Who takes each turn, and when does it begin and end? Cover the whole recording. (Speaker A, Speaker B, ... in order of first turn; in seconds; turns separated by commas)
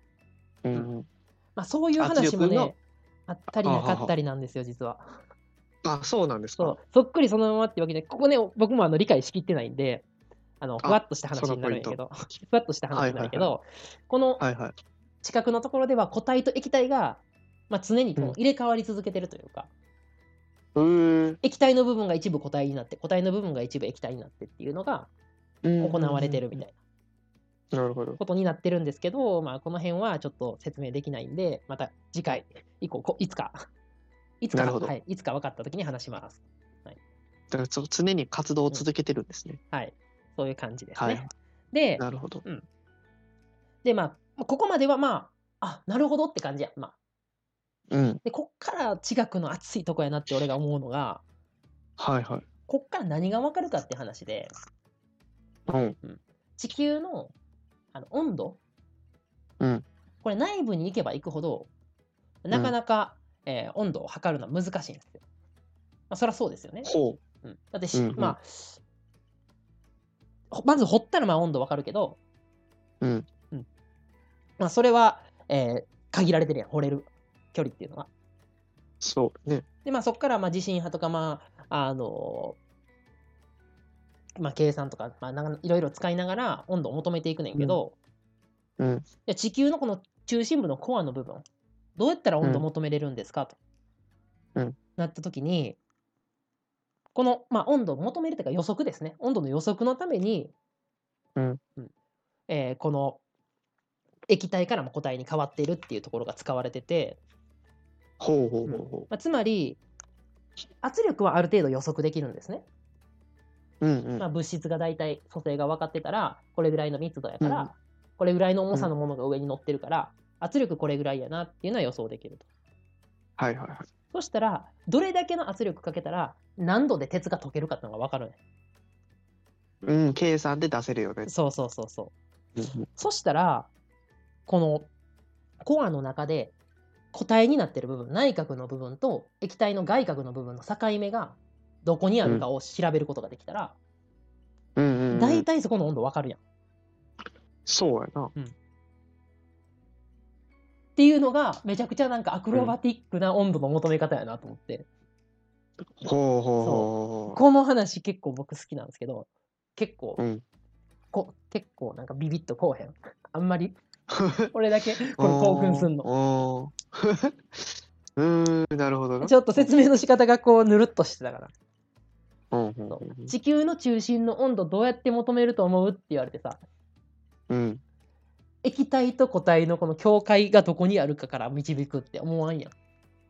Speaker A: 0.7-1.1, Speaker B: 1.6-5.2, Speaker A: 2.0-2.7, Speaker A: 3.6-4.1, Speaker A: 5.8-6.8, Speaker B: 6.6-10.1, Speaker B: 10.6-14.4, Speaker A: 10.8-12.0, Speaker A: 12.9-13.6, Speaker A: 14.4-14.8, Speaker B: 15.2-19.7, Speaker A: 20.8-21.4, Speaker B: 21.4-25.1, Speaker A: 25.6-26.6, Speaker B: 25.8-26.8, Speaker A: 27.7-28.2, Speaker B: 28.2-33.6, Speaker B: 34.4-37.0, Speaker A: 34.5-34.9, Speaker A: 37.5-39.6, Speaker B: 39.7-42.6, Speaker A: 41.0-41.3, Speaker A: 42.0-42.5, Speaker B: 43.8-47.0, Speaker A: 47.9-48.2, Speaker B: 48.2-51.2, Speaker A: 52.0-52.5, Speaker B: 52.7-54.5, Speaker A: 55.7-56.0, Speaker B: 56.0-57.3, Speaker B: 57.9-58.6, Speaker A: 59.6-59.9, Speaker B: 60.2-61.7, Speaker B: 62.4-65.2, Speaker B: 66.1-66.9, Speaker A: 66.8-67.2, Speaker B: 67.4-68.8, Speaker A: 67.9-68.4, Speaker B: 70.5-72.2, Speaker B: 74.6-78.1, Speaker A: 79.0-79.7, Speaker B: 79.8-82.6, Speaker B: 84.4-88.0, Speaker A: 87.5-87.8, Speaker A: 88.8-89.1, Speaker B: 89.3-91.5, Speaker B: 92.0-93.6, Speaker B: 95.0-95.8, Speaker B: 97.2-100.5, Speaker B: 102.5-103.2, Speaker B: 104.3-107.2, Speaker A: 108.2-109.1, Speaker B: 108.7-109.8, Speaker B: 110.8-112.7, Speaker A: 113.8-114.3, Speaker B: 114.2-122.5, Speaker A: 117.4-117.7, Speaker A: 123.4-123.9, Speaker B: 124.1-128.4, Speaker A: 129.8-131.3, Speaker B: 131.3-132.1, Speaker B: 133.0-133.7, Speaker B: 134.5-134.9, Speaker B: 135.6-136.5, Speaker B: 137.1-143.8, Speaker A: 144.8-145.5, Speaker B: 145.1-146.4, Speaker A: 147.7-148.3, Speaker B: 151.0-154.9, Speaker A: 156.0-157.4, Speaker B: 156.6-160.2, Speaker A: 160.2-160.4, Speaker B: 161.1-163.8, Speaker A: 164.1-164.5, Speaker B: 164.5-166.1, Speaker A: 165.2-169.7, Speaker B: 169.2-171.5, Speaker A: 172.5-173.3, Speaker B: 172.9-176.6, Speaker A: 177.5-177.8, Speaker B: 178.6-182.7